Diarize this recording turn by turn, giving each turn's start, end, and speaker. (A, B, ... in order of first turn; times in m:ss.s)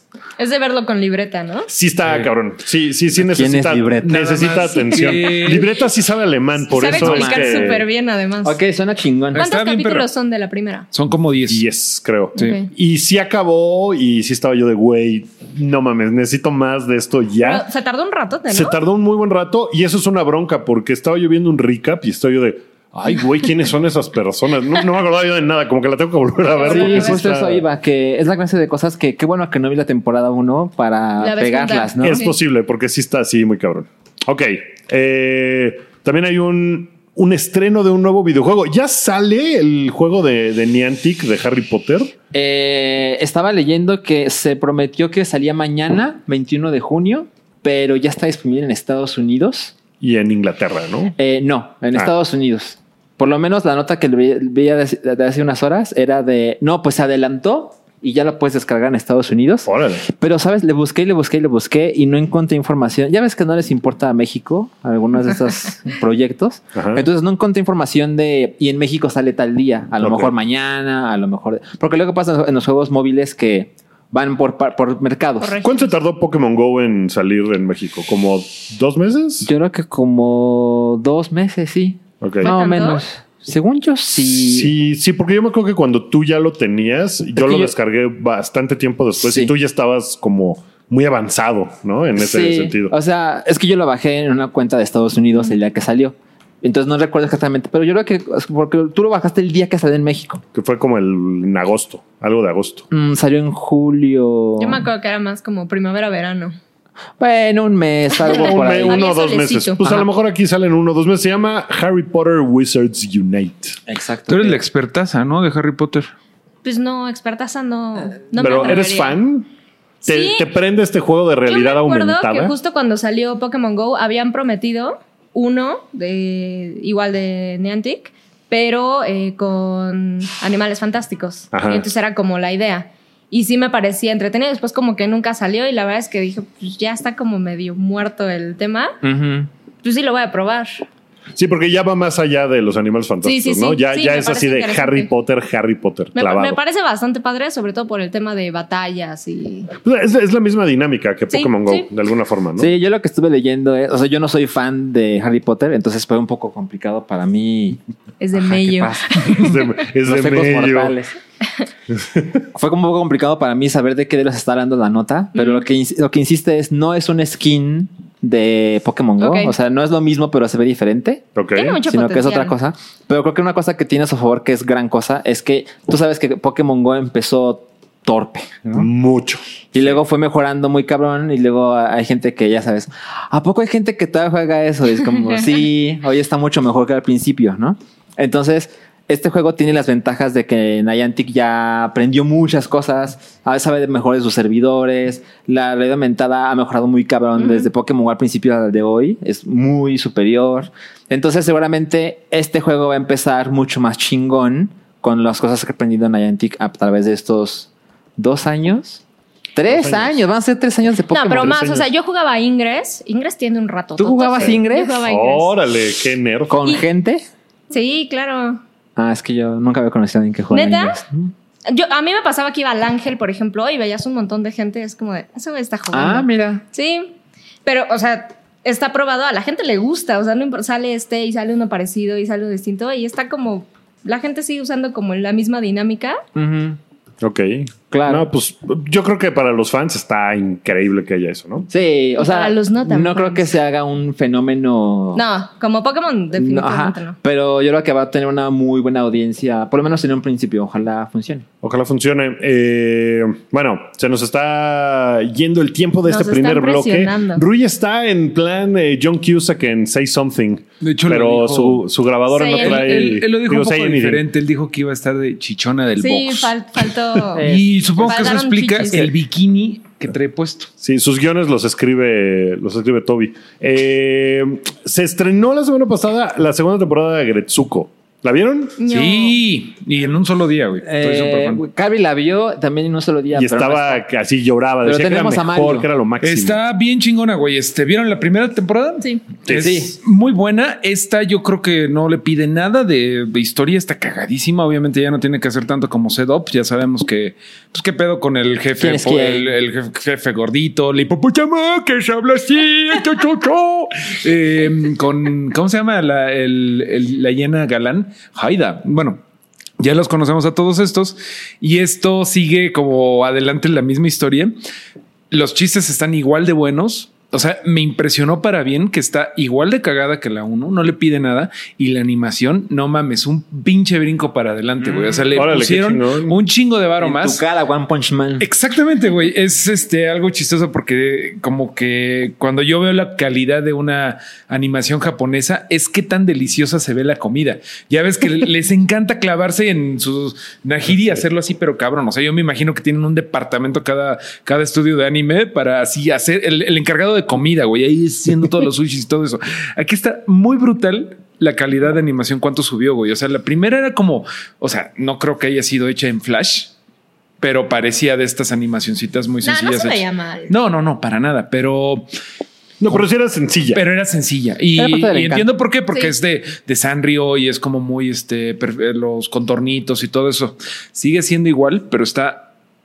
0:00.4-0:01.7 A
0:01.7-0:07.8 B
0:03.2-0:04.2 C
0:04.0-0:05.7 D
0:04.6-0:05.6 A
0:06.7-0:08.6 A
0:06.8-0:07.8 C
0:08.4-0:09.4 C
0:09.3-0:10.1 D
0:09.4-0:10.9 A
0:10.9-0:11.6 D
0:11.5-0:17.6 B
0:12.4-0:12.7 A
0:17.4-0:18.8 A
0:18.5-0:27.6 B
0:26.5-0:27.2 A
0:26.6-0:32.2 C
0:31.2-0:32.3 A
0:32.0-0:42.1 B
0:42.3-0:49.7 C
0:50.0-0:51.1 B
0:51.2-1:15.6 C
0:59.6-1:00.0 B
1:06.7-1:07.0 B
1:10.0-1:10.3 B
1:15.4-1:15.9 A
1:15.6-1:19.5 B
1:19.4-1:24.7 C
1:22.2-1:22.5 B
1:22.4-1:23.0 A
1:24.2-1:32.9 B
1:27.4-1:27.7 C
1:29.2-1:29.5 C
1:32.2-1:40.4 C
1:40.5-1:42.9 B
1:42.9-1:44.8 C
1:44.6-1:46.6 A
1:47.2-1:49.0 C
1:48.2-1:49.8 A
1:48.2-1:53.8 B
1:49.8-1:50.1 C
1:53.8-1:54.6 C
1:54.3-1:56.1 D
1:56.6-1:59.2 A
1:58.4-1:58.8 C
1:58.4-1:59.5 B
2:00.0-2:00.4 A
2:00.0-2:02.5 B
2:01.4-2:19.0 A
2:11.5-2:11.9 B
2:19.0-2:19.5 C
2:19.8-2:20.8 A
2:21.4-2:26.6 B
2:23.2-2:25.1 A
2:26.1-2:29.7 A
2:29.8-2:32.7 B
2:31.3-2:31.9 A
2:32.6-2:37.8 C
2:38.2-2:39.6 A
2:38.3-2:41.1 C
2:39.2-2:40.9 B
2:41.9-2:42.4 B
2:42.5-2:51.2 C
2:45.3-2:45.6 A
2:49.2-2:49.5 A
2:51.4-2:51.8 B
2:51.5-2:52.5 A
2:51.9-2:58.9 C
2:58.7-2:59.9 B
2:59.7-3:29.0 C
3:17.4-3:17.7 A
3:29.6-3:31.6 C
3:29.7-3:30.2 B
3:31.1-3:35.5 A
3:31.4-3:31.9 B
3:34.0-3:35.0 C
3:34.4-3:36.5 B
3:36.5-3:37.2 C
3:37.7-3:38.6 A
3:39.0-3:41.3 C
3:40.5-3:41.0 A
3:41.7-3:47.1 A
3:45.9-3:46.6 C
3:47.6-3:56.2 A
3:56.3-3:56.8 C
3:57.2-4:01.7 B
3:57.9-3:58.3 C
4:01.7-4:05.2 C
4:02.2-4:03.5 A
4:05.1-4:07.2 A
4:06.4-4:11.4 C
4:11.6-4:24.2 B
4:16.0-4:17.4 A
4:20.8-4:21.8 D
4:22.3-4:23.2 A
4:22.6-4:26.5 D
4:26.0-4:27.4 A
4:27.3-4:28.3 C
4:27.4-4:30.7 D
4:28.0-4:29.1 A
4:30.8-4:38.8 B
4:38.8-4:39.4 A
4:38.9-4:41.6 D
4:40.8-4:44.0 C
4:43.3-4:46.6 B
4:44.8-4:45.9 C
4:46.2-5:09.2 D
4:49.5-4:49.9 C
4:58.8-4:59.5 C
5:09.8-5:14.6 D
5:15.3-5:27.4 D
5:25.3-5:26.4 B
5:27.0-5:28.5 C
5:28.4-5:56.7 D
5:57.4-6:02.1 D
5:59.4-6:00.5 A
6:02.8-6:03.8 B
6:03.7-6:12.5 D
6:04.8-6:05.5 C